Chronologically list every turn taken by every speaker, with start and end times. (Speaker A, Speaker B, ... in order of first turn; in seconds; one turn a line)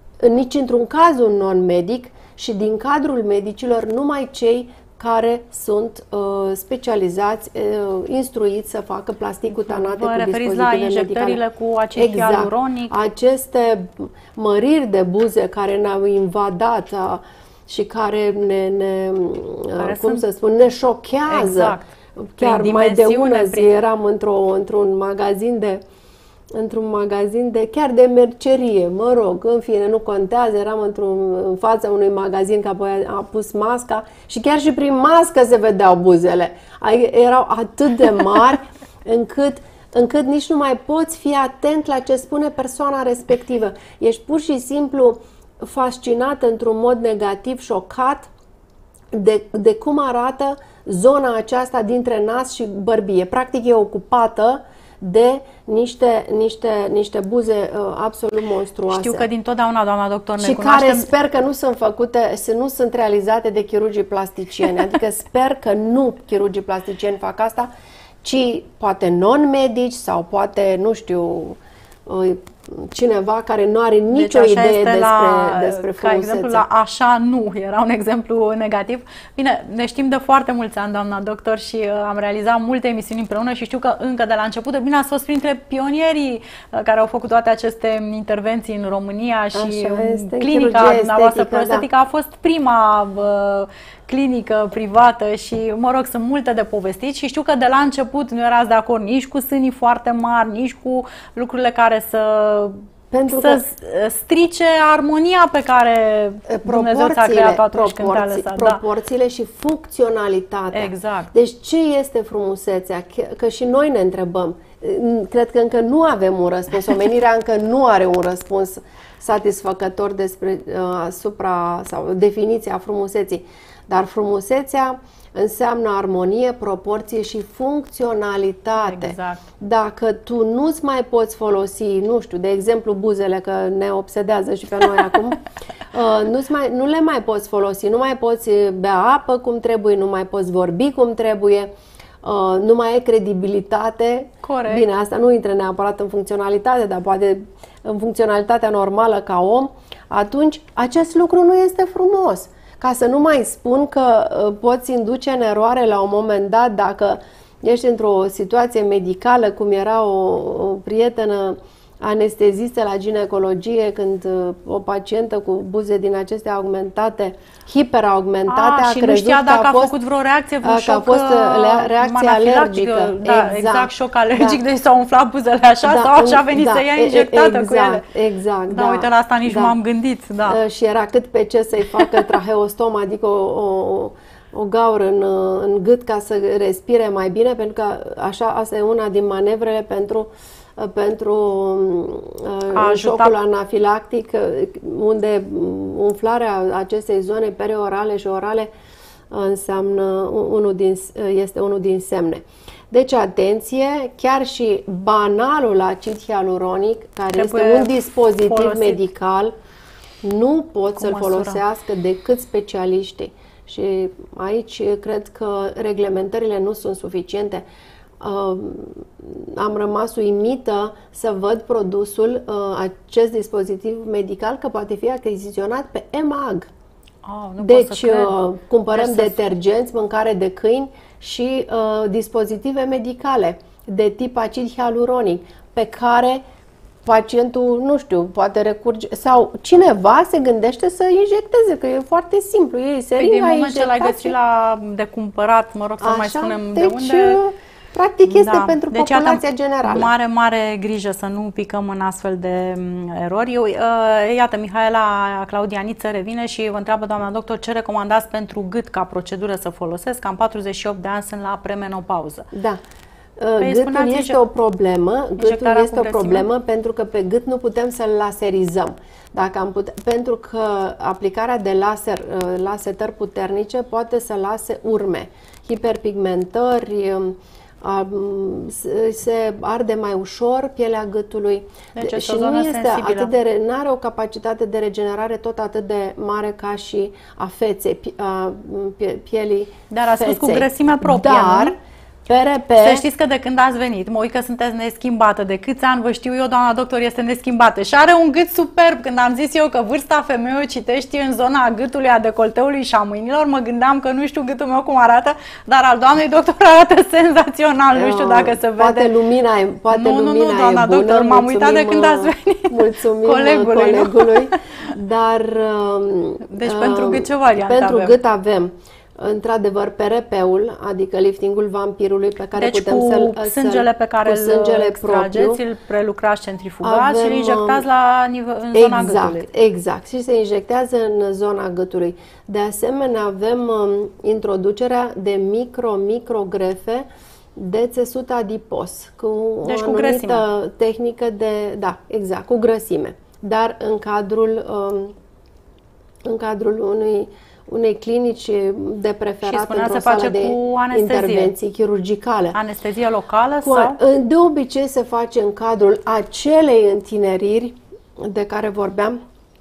Speaker A: 0.2-11.4
Speaker B: 9.7-12.9
Speaker A: 11.9-25.8
Speaker B: 19.8-20.2
Speaker B: 21.3-21.8
Speaker B: 22.4-23.7
Speaker A: 26.5-48.3
Speaker A: 49.1-59.3
Speaker B: 58.9-61.1
Speaker A: 60.4-67.7
Speaker A: 68.2-76.7
Speaker B: 74.1-102.8
Speaker A: 89.5-91.9
Speaker A: 103.1-103.6
Speaker B: 103.3-108.8
Speaker A: 106.5-141.7
Speaker B: 110.7-111.3
Speaker B: 128.8-129.4
Speaker A: 142.2-169.9
Speaker B: 144.4-144.9
Speaker B: 168.5-178.0
Speaker A: 170.6-174.6
Speaker A: 175.8-179.8
Speaker B: 178.7-180.6
Speaker A: 180.5-198.7
Speaker B: 192.7-193.4
Speaker A: 199.3-209.5
Speaker B: 207.3-209.0
Speaker A: 210.2-217.6
Speaker B: 211.0-211.6
Speaker A: 218.2-226.7
Speaker B: 227.2-228.4
Speaker A: 227.6-236.4
Speaker B: 228.9-229.5
Speaker A: 237.1-244.3
Speaker B: 243.2-247.4
Speaker A: 246.0-250.1
Speaker B: 248.3-262.5
Speaker A: 262.5-262.8
Speaker A: 263.4-291.8
Speaker B: 263.6-264.4
Speaker B: 265.4-266.5
Speaker B: 282.0-283.3
Speaker B: 289.9-291.7
Speaker A: 292.3-293.1
Speaker B: 292.8-309.1
Speaker A: 307.9-325.6
Speaker B: 309.9-314.6
Speaker B: 316.5-318.2
Speaker B: 322.6-329.5
Speaker A: 326.8-327.8
Speaker A: 328.7-345.1
Speaker B: 339.6-340.4
Speaker A: 346.2-352.6
Speaker B: 349.4-351.5
Speaker B: 352.5-354.0
Speaker A: 353.6-359.2